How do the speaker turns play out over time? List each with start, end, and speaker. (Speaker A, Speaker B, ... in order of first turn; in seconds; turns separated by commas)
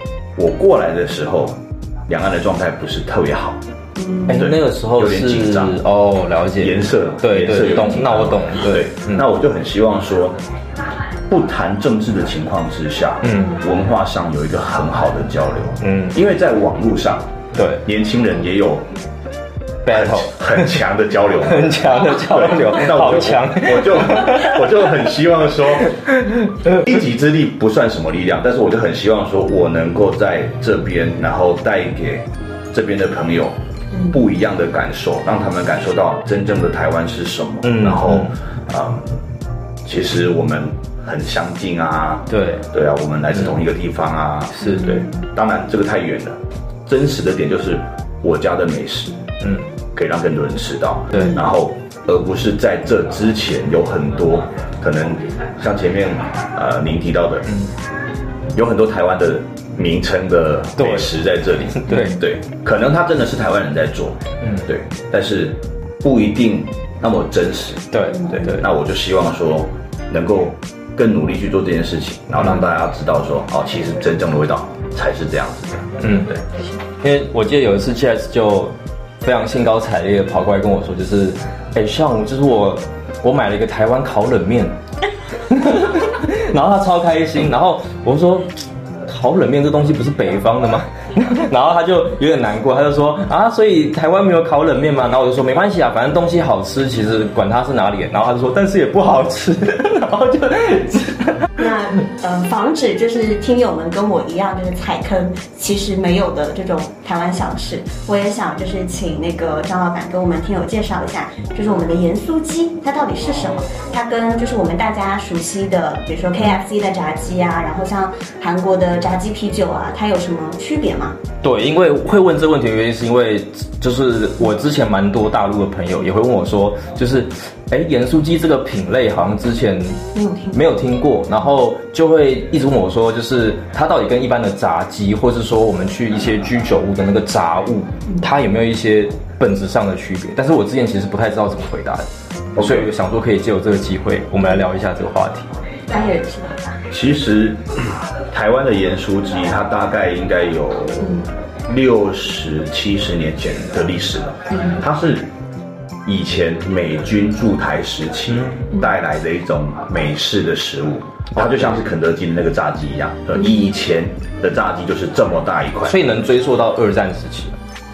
Speaker A: 0.4-3.6, Speaker B: 4.0-4.4, Speaker C: 4.3-9.2, Speaker A: 4.3-5.8, Speaker A: 6.6-10.4, Speaker A: 11.3-18.9, Speaker C: 13.2-13.6, Speaker C: 15.8-16.2, Speaker C: 17.5-17.9, Speaker C: 19.9-20.8, Speaker A: 19.9-26.1, Speaker C: 21.4-24.7, Speaker C: 25.9-26.8, Speaker A: 26.7-33.6, Speaker A: 34.1-39.2, Speaker C: 37.6-38.3, Speaker A: 39.8-49.2, Speaker C: 42.3-42.6, Speaker C: 44.6-45.1, Speaker B: 44.6-45.1, Speaker A: 50.0-57.5, Speaker C: 51.1-51.4, Speaker A: 58.5-76.4, Speaker C: 60.8-61.1, Speaker C: 61.8-62.2, Speaker C: 64.4-64.7, Speaker C: 67.9-68.6, Speaker C: 76.0-76.3, Speaker C: 77.0-84.8, Speaker C: 85.5-101.5, Speaker B: 101.6-121.2, Speaker C: 121.4-130.0, Speaker B: 130.2-130.6, Speaker C: 130.5-145.5, Speaker A: 142.6-142.9, Speaker B: 145.9-146.8, Speaker A: 146.9-155.3, Speaker B: 151.0-151.3, Speaker B: 154.5-154.8, Speaker A: 156.1-166.0, Speaker C: 158.3-158.7, Speaker C: 161.3-161.8, Speaker C: 165.8-167.6